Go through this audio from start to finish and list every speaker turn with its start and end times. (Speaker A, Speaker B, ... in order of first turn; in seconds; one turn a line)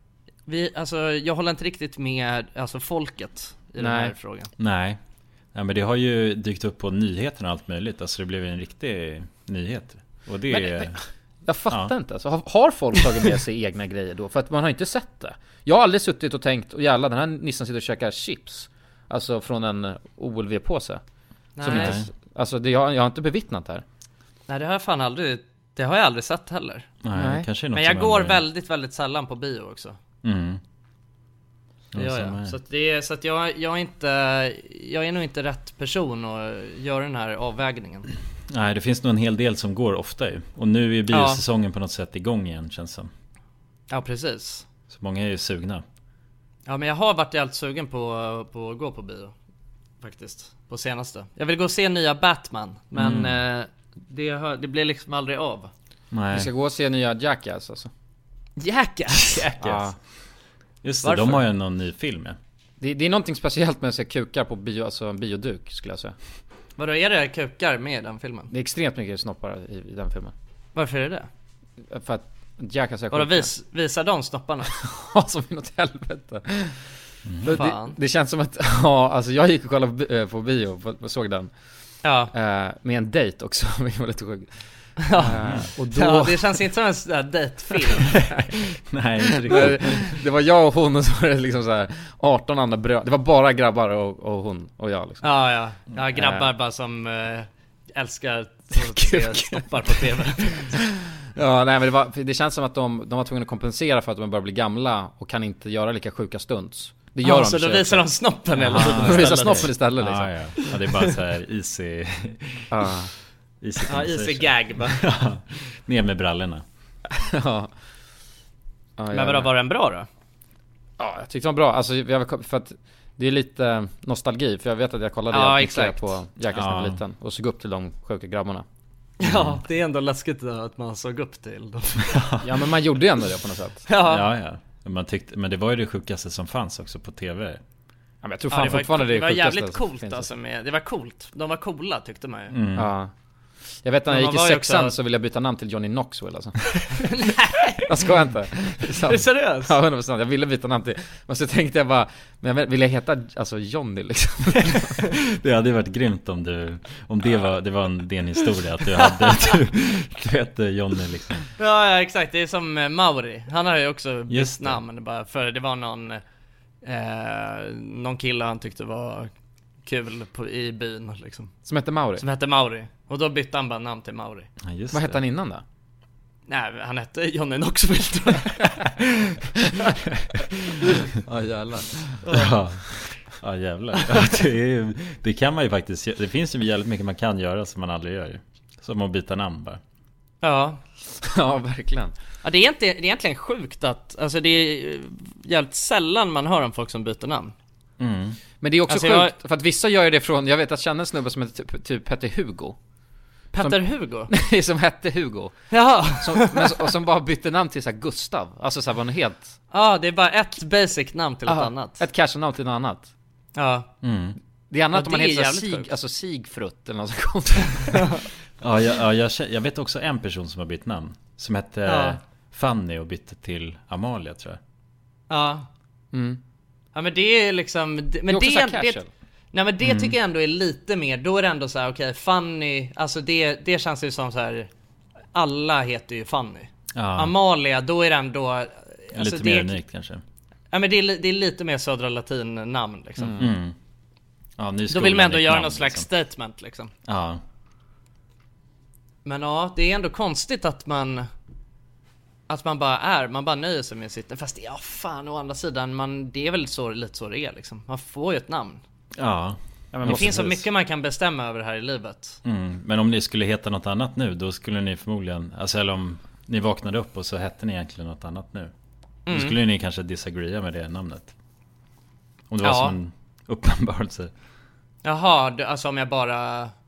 Speaker A: 0.5-4.5
Speaker B: 3.8-4.1
Speaker C: 4.6-5.0
Speaker C: 5.5-11.0
Speaker B: 10.5-21.0
Speaker A: 21.6-22.0
Speaker B: 21.6-23.8
Speaker C: 21.7-22.1
Speaker A: 24.5-26.9
Speaker C: 27.0-28.4
Speaker B: 27.1-27.5
Speaker A: 27.7-30.0
Speaker C: 30.2-30.6
Speaker C: 31.9-32.6
Speaker A: 32.0-38.1
Speaker C: 38.5-43.1
Speaker A: 41.1-41.4
Speaker A: 43.9-44.7
Speaker C: 44.9-45.8
Speaker A: 46.7-49.3
Speaker A: 50.0-55.7
Speaker C: 53.0-53.4
Speaker C: 56.1-56.5
Speaker B: 56.3-57.9
Speaker A: 58.6-59.6
Speaker B: 59.6-60.0
Speaker C: 59.6-59.9
Speaker C: 60.8-62.4
Speaker A: 61.0-61.4
Speaker B: 62.8-66.2
Speaker A: 66.8-68.5
Speaker B: 68.5-70.3
Speaker A: 70.8-71.3
Speaker B: 71.9-73.5
Speaker A: 73.1-74.8
Speaker B: 74.8-76.8
Speaker C: 77.3-77.6
Speaker B: 77.5-81.5
Speaker A: 77.5-78.0
Speaker A: 82.0-82.3
Speaker B: 82.3-84.5
Speaker A: 85.1-88.3
Speaker B: 85.1-86.6
Speaker C: 88.9-90.2
Speaker B: 89.5-95.2
Speaker A: 95.2-100.8
Speaker B: 96.1-96.5
Speaker B: 98.7-99.7
Speaker B: 101.4-108.1
Speaker A: 107.2-109.8
Speaker C: 108.6-112.7
Speaker B: 108.6-110.3
Speaker A: 110.7-111.1
Speaker B: 112.7-113.1
Speaker C: 113.6-116.6
Speaker A: 113.9-115.0
Speaker B: 117.1-117.7
Speaker B: 119.0-119.5
Speaker A: 119.1-120.1
Speaker B: 121.0-128.7
Speaker A: 125.3-126.2
Speaker C: 126.5-127.0
Speaker A: 129.2-132.2
Speaker C: 129.2-129.6
Speaker C: 132.1-132.4
Speaker B: 132.4-133.9
Speaker A: 133.9-134.3
Speaker C: 134.0-137.6
Speaker B: 138.2-140.3
Speaker A: 138.5-142.5
Speaker C: 142.5-142.9
Speaker B: 142.8-143.1
Speaker B: 143.8-147.1
Speaker A: 144.1-145.0
Speaker A: 147.0-147.9
Speaker B: 147.8-155.0
Speaker A: 149.0-149.8
Speaker C: 155.0-161.4
Speaker A: 159.0-159.5
Speaker A: 161.6-166.2
Speaker C: 164.3-164.8
Speaker A: 166.8-169.3
Speaker A: 169.8-171.5
Speaker B: 171.7-172.2
Speaker A: 172.2-174.5
Speaker C: 174.6-175.2
Speaker B: 174.9-175.6
Speaker A: 176.5-178.8
Speaker B: 181.2-182.0
Speaker C: 182.2-189.8
Speaker A: 190.4-190.8
Speaker B: 191.2-192.1
Speaker A: 192.4-197.5
Speaker C: 198.0-198.4
Speaker B: 198.6-202.8
Speaker A: 198.9-199.3
Speaker A: 203.5-204.3
Speaker B: 203.6-205.5
Speaker A: 205.7-206.9
Speaker B: 206.1-209.6
Speaker A: 209.7-212.0
Speaker B: 211.5-213.1
Speaker A: 213.6-213.9
Speaker C: 214.0-214.4
Speaker B: 214.7-218.1
Speaker A: 214.9-215.9
Speaker C: 218.6-224.6
Speaker A: 221.9-222.2
Speaker A: 225.3-225.7
Speaker B: 226.1-226.4
Speaker A: 226.9-229.0
Speaker B: 228.3-229.1
Speaker A: 229.5-234.7
Speaker C: 229.8-230.2
Speaker A: 235.3-239.8
Speaker C: 236.9-237.3
Speaker C: 239.1-240.2
Speaker A: 240.7-243.4
Speaker B: 243.2-243.5
Speaker C: 243.4-243.8
Speaker C: 244.6-246.1
Speaker A: 244.9-246.9
Speaker C: 247.1-247.4
Speaker A: 249.2-251.3
Speaker A: 252.5-258.8
Speaker C: 259.1-260.4
Speaker B: 259.9-260.6
Speaker A: 260.1-262.4
Speaker C: 262.4-268.7
Speaker A: 269.3-269.6
Speaker C: 269.3-271.3
Speaker C: 272.5-274.3
Speaker A: 272.6-273.0
Speaker A: 275.0-276.7